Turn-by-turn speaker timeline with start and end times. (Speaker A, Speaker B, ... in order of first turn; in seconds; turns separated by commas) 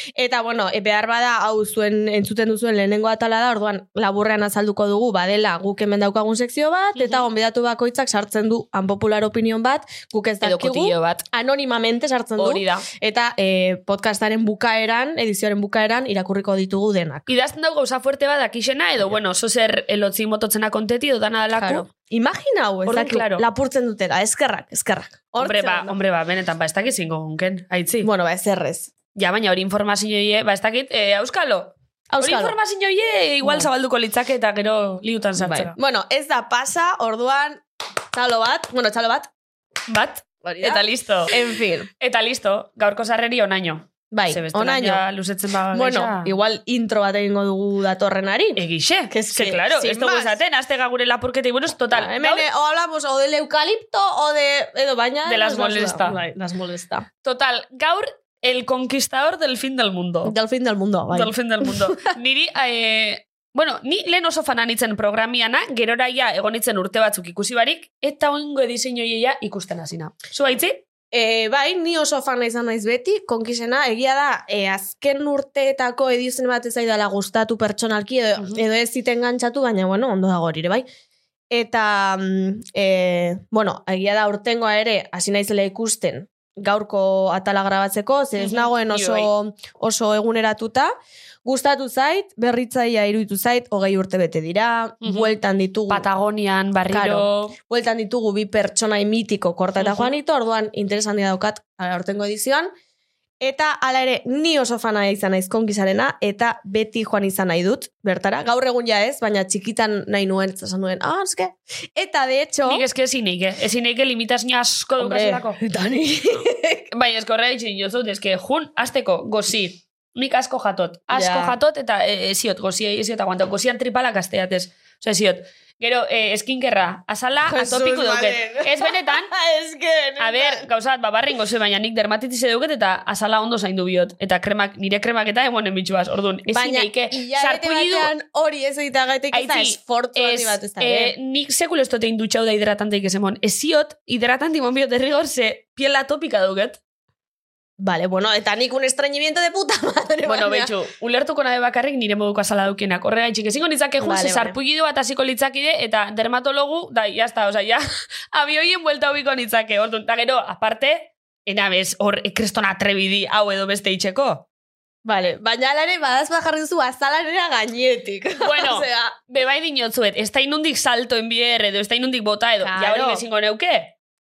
Speaker A: 0.2-17.3, Speaker B: 7.0-7.3, Speaker B: 10.4-11.2, Speaker B: 12.4-12.9, Speaker B: 17.3-21.9, Speaker A: 21.6-25.9, Speaker B: 22.9-23.4, Speaker B: 25.4-28.1, Speaker A: 28.0-28.9, Speaker B: 29.1-35.8, Speaker A: 32.1-32.6, Speaker A: 33.4-33.7, Speaker A: 35.4-37.6, Speaker A: 38.1-39.3, Speaker B: 39.9-41.4, Speaker A: 40.4-41.9, Speaker B: 42.0-46.3, Speaker A: 44.1-45.0, Speaker A: 45.7-50.4, Speaker B: 48.6-52.5, Speaker A: 51.9-57.1, Speaker B: 55.2-56.2, Speaker B: 57.2-60.3, Speaker A: 60.2-62.1, Speaker B: 61.1-70.8, Speaker A: 71.1-80.9, Speaker A: 81.5-90.9, Speaker B: 88.4-89.3, Speaker A: 91.5-96.1, Speaker B: 95.0-95.3, Speaker B: 95.9-97.6, Speaker A: 96.9-102.7, Speaker B: 99.8-100.1, Speaker A: 103.4-112.8, Speaker B: 112.7-115.6, Speaker A: 115.0-116.8, Speaker B: 116.9-129.3, Speaker A: 121.1-121.5, Speaker A: 127.5-130.7, Speaker B: 130.2-138.1, Speaker A: 136.5-141.1, Speaker B: 139.3-146.8, Speaker A: 147.8-150.7, Speaker B: 150.3-164.4, Speaker A: 154.0-154.6, Speaker A: 165.1-169.2, Speaker B: 168.4-173.9, Speaker A: 172.6-173.2